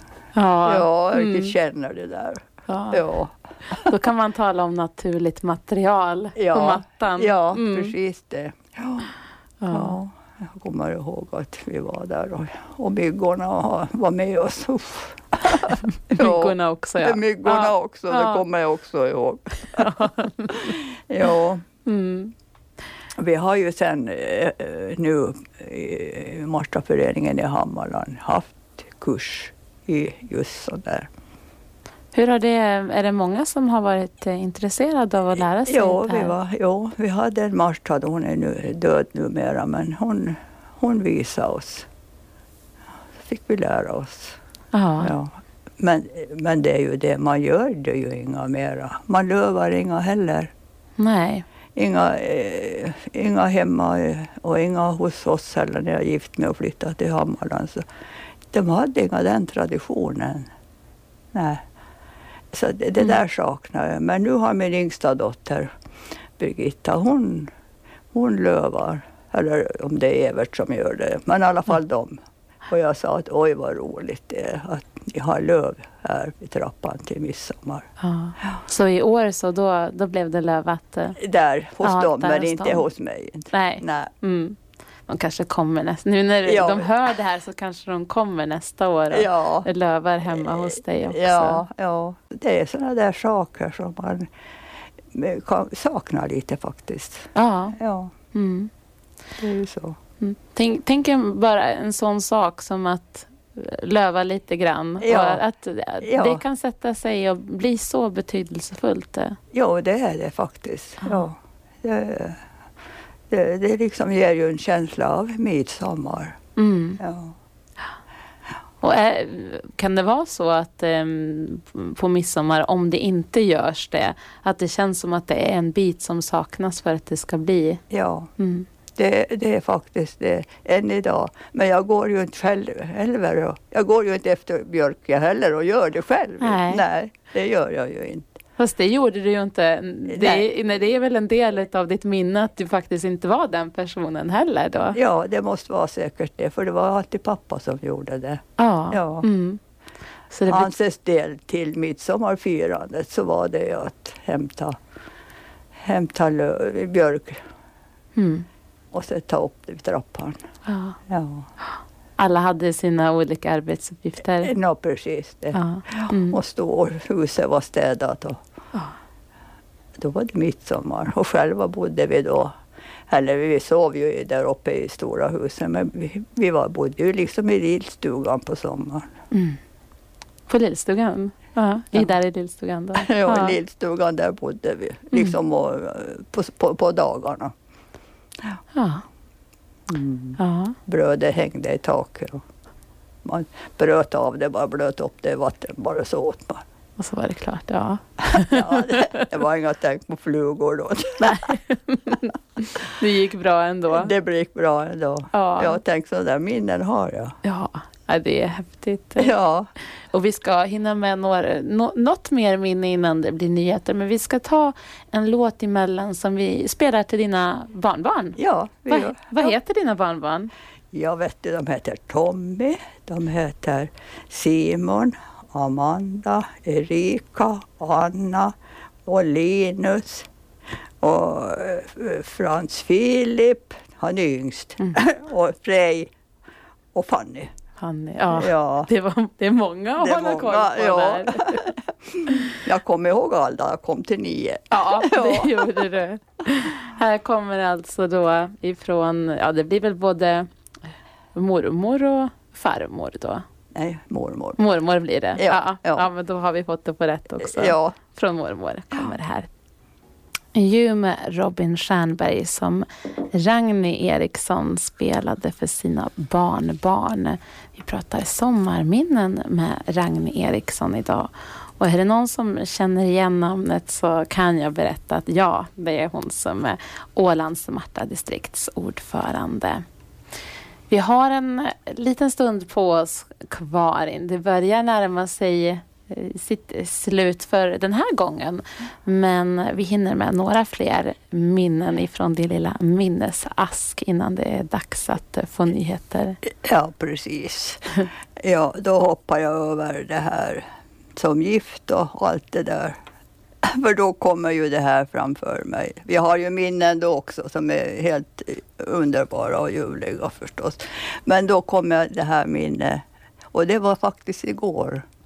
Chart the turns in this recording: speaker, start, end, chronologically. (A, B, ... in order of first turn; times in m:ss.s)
0:00.3-0:01.5 A
0:00.6-0:03.9 B
0:02.7-0:03.0 A
0:03.7-0:07.9 A
0:06.4-0:09.1 B
0:09.6-0:10.0 A
0:09.7-0:21.6 B
0:15.6-0:18.4 A
0:19.6-0:20.7 A
0:21.8-0:22.3 A
0:23.2-0:31.1 B
0:32.1-0:36.3 A
0:35.6-0:41.9 B
0:43.2-0:44.4 B
0:44.7-0:45.1 A
0:45.0-0:50.5 B
0:51.0-0:51.4 A
0:51.8-0:57.8 B
0:58.5-1:00.5 B
1:01.3-1:01.6 B
1:02.5-1:05.7 B
1:06.4-1:07.5 B
1:08.1-1:17.9 B
1:18.0-1:21.2 A
1:21.2-1:24.1 B
1:21.8-1:22.9 A
1:23.5-1:31.6 A
1:26.4-1:26.9 B
1:29.1-1:29.7 B
1:30.3-1:34.3 B
1:35.1-1:38.1 B
1:37.3-1:37.8 A
1:38.3-1:38.7 A
1:39.4-1:40.0 B
1:40.2-1:49.4 A
1:45.0-1:45.4 B
1:46.0-1:46.4 B
1:49.5-1:52.4 B
1:53.3-1:56.4 B
1:56.6-1:57.0 A
1:57.0-1:57.3 B
1:58.8-2:07.8 A
2:07.9-2:08.3 B
2:08.4-2:08.7 A
2:08.9-2:18.3 B
2:16.4-2:16.8 A
2:18.6-2:25.0 A
2:20.1-2:20.5 B
2:24.9-2:29.2 B
2:28.6-2:29.6 A
2:30.3-2:30.7 A
2:30.4-2:34.8 B
2:35.8-2:37.4 B
2:38.2-2:38.5 A
2:38.9-2:40.4 B
2:40.6-2:41.0 A
2:41.1-2:41.5 B
2:42.2-2:44.5 A
2:44.4-2:48.4 B
2:45.5-2:46.4 A
2:50.0-2:52.5 B
2:53.1-2:59.1 B
2:59.3-2:59.6 A
3:00.5-3:03.6 A
3:02.9-3:07.5 B
3:08.7-3:09.0 A
3:09.9-3:12.4 B
3:10.4-3:10.8 A
3:13.2-3:16.6 B
3:17.0-3:19.3 A
3:18.3-3:21.5 B
3:21.2-3:24.1 A
3:23.9-3:27.4 B
3:25.3-3:25.8 A
3:27.4-3:29.3 A
3:29.2-3:29.7 B
3:30.1-3:38.4 A
3:38.4-3:39.5 B
3:38.9-3:40.5 A
3:40.9-3:48.5 B
3:49.0-3:50.3 B
3:51.0-3:56.1 B
3:56.9-3:57.5 B
3:57.8-4:01.7 A
3:58.3-3:58.9 B
4:00.0-4:05.8 B
4:02.3-4:02.5 A
4:04.7-4:10.5 A
4:11.3-4:13.4 A
4:13.7-4:14.6 B
4:14.6-4:19.5 A
4:15.4-4:16.1 B
4:17.4-4:17.9 B
4:20.5-4:39.8 A
4:40.9-4:56.4 A
4:56.4-4:57.8 B
4:58.4-5:00.6 B
5:01.2-5:03.0 B
5:03.6-5:15.0 B